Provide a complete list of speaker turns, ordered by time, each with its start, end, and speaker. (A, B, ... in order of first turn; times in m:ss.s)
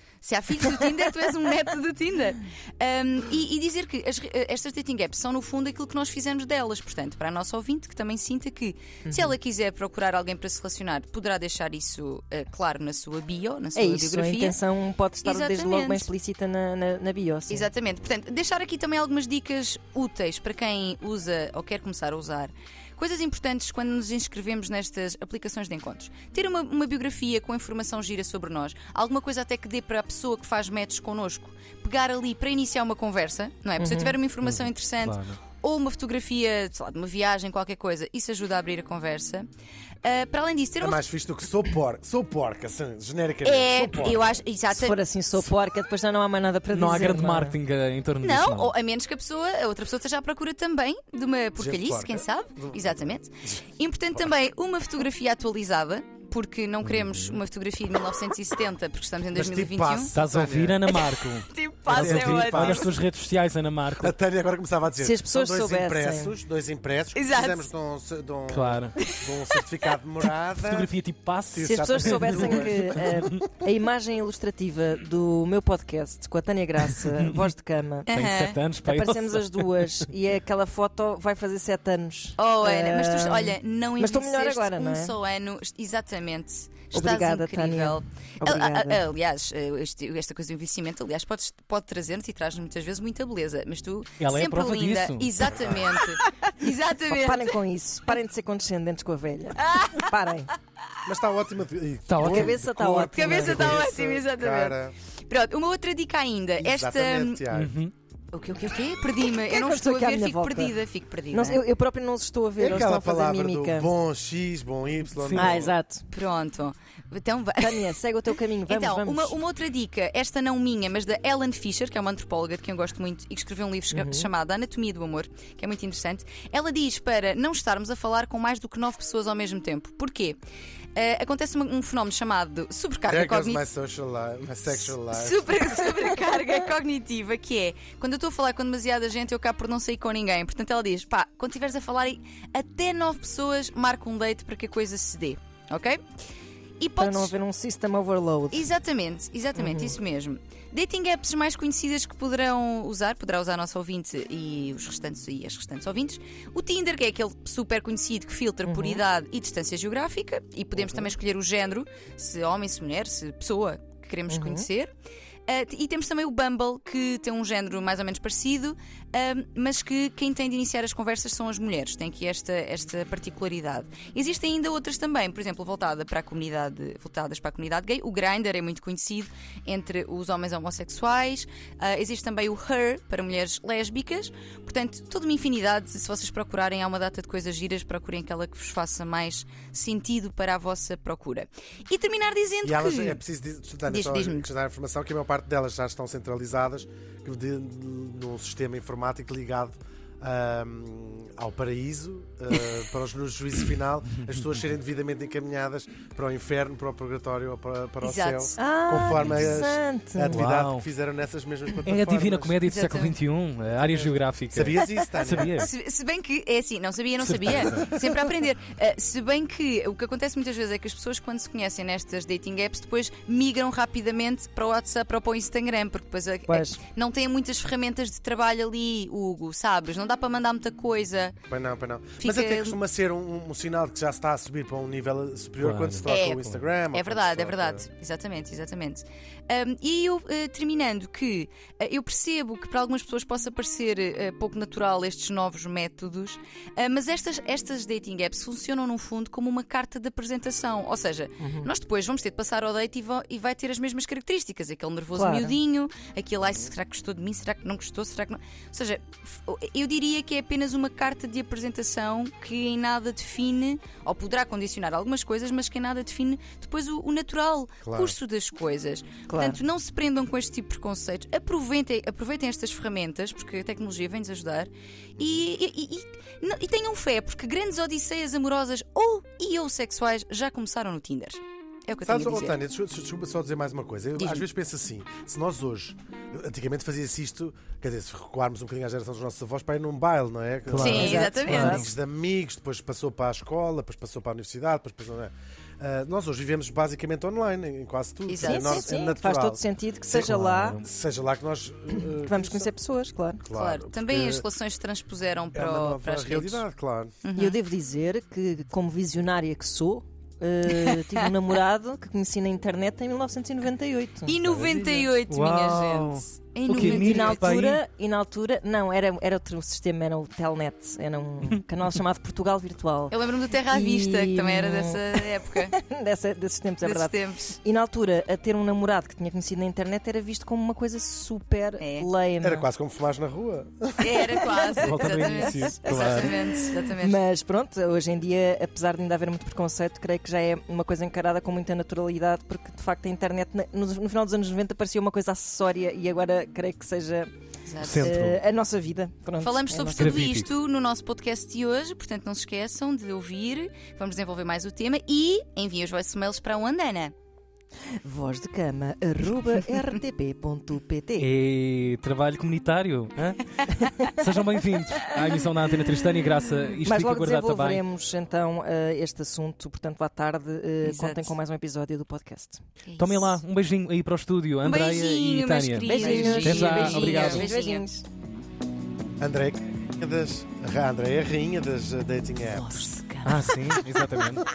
0:00.2-0:14.6 A
0:09.1-0:09.3 B
0:13.7-0:17.7 B
0:15.2-0:16.1 A
0:17.5-0:39.5 A
0:33.8-0:34.2 B
0:34.4-0:35.4 C
0:40.0-0:41.0 A
0:40.8-0:44.3 D
0:43.4-0:45.0 A
0:44.7-0:47.6 B
0:46.7-0:48.7 C
0:48.2-1:00.1 A
0:51.6-0:53.6 D
0:56.8-0:57.4 C
0:59.3-1:00.8 D
1:00.1-1:04.1 C
1:00.9-1:02.9 A
1:01.9-1:02.9 D
1:04.0-1:10.9 D
1:05.0-1:06.3 B
1:07.1-1:07.7 A
1:08.5-1:08.9 C
1:10.6-1:12.5 C
1:11.5-1:13.3 D
1:11.6-1:18.1 B
1:18.0-1:18.6 A
1:18.1-1:19.9 C
1:18.8-1:25.1 B
1:22.4-1:37.5 A
1:26.9-1:29.0 B
1:34.2-1:35.3 C
1:35.4-1:35.9 D
1:37.0-1:40.5 B
1:39.6-1:40.1 A
1:41.0-1:44.9 D
1:42.1-1:43.1 C
1:42.2-1:43.9 B
1:43.1-1:47.4 A
1:46.6-1:47.8 D
1:47.5-1:47.9 C
1:48.3-1:51.6 A
1:49.5-1:50.8 B
1:51.3-1:53.9 B
1:52.6-1:55.7 D
1:55.1-1:55.6 C
1:55.3-1:56.0 B
1:56.1-1:58.0 A
1:57.6-1:59.4 B
1:58.6-2:10.4 A
2:03.9-2:04.3 B
2:10.9-2:13.6 A
2:13.1-2:15.6 D
2:14.7-2:26.0 A
2:26.8-2:27.3 A
2:27.0-2:28.7 B
2:28.5-2:44.9 A
2:29.6-2:30.0 B
2:38.6-2:39.0 B
2:44.3-2:44.7 B
2:45.5-3:13.2 A
3:12.6-3:32.6 D
3:13.8-3:14.5 A
3:28.0-3:28.6 A
3:28.6-3:30.4 B
3:29.1-3:29.4 C
3:30.3-3:30.8 C
3:31.8-3:35.7 C
3:32.6-3:33.2 A
3:33.8-3:35.6 D
3:35.6-3:51.4 A
3:37.2-3:37.9 C
3:46.5-3:46.8 B
3:51.5-3:57.8 D
3:52.2-3:52.8 A
3:55.6-3:56.6 C
3:56.0-4:42.6 A
4:11.4-4:11.7 B
4:15.1-4:15.6 B
4:27.8-4:28.2 D
4:29.3-4:29.6 B
4:42.0-4:59.6 D
4:44.2-4:44.5 A
4:50.7-4:51.9 C
4:50.8-4:51.8 A
4:50.8-4:51.9 B
4:58.3-4:58.9 A
4:58.4-5:00.8 B
5:00.1-5:00.9 C
5:00.1-5:02.7 D
5:01.9-5:03.4 B
5:03.4-5:04.4 D
5:03.5-5:06.6 A
5:05.5-5:07.2 D
5:07.2-5:07.6 A
5:07.4-5:15.0 B
5:14.2-5:17.7 A
5:14.4-5:17.8 C
5:16.7-5:23.2 B
5:23.1-5:25.8 A
5:23.7-5:32.7 B
5:26.8-5:27.6 A
5:31.8-5:32.1 A
5:32.4-5:34.4 D
5:34.0-5:37.2 A
5:34.2-5:47.3 B
5:34.8-5:36.3 C
5:47.6-5:48.2 A
5:47.8-5:48.4 C
5:48.0-5:50.2 B
5:49.4-5:57.1 A
5:50.0-5:50.5 C
5:58.0-6:01.3 B
6:01.2-6:03.4 C
6:03.8-6:04.2 B
6:04.1-6:07.8 C
6:06.8-6:12.6 B
6:10.8-6:11.3 A
6:12.8-6:13.4 A
6:13.0-6:17.5 C
6:14.6-6:18.0 A
6:15.8-6:18.0 B
6:19.2-6:23.0 D
6:22.5-6:23.8 A
6:23.2-6:24.5 C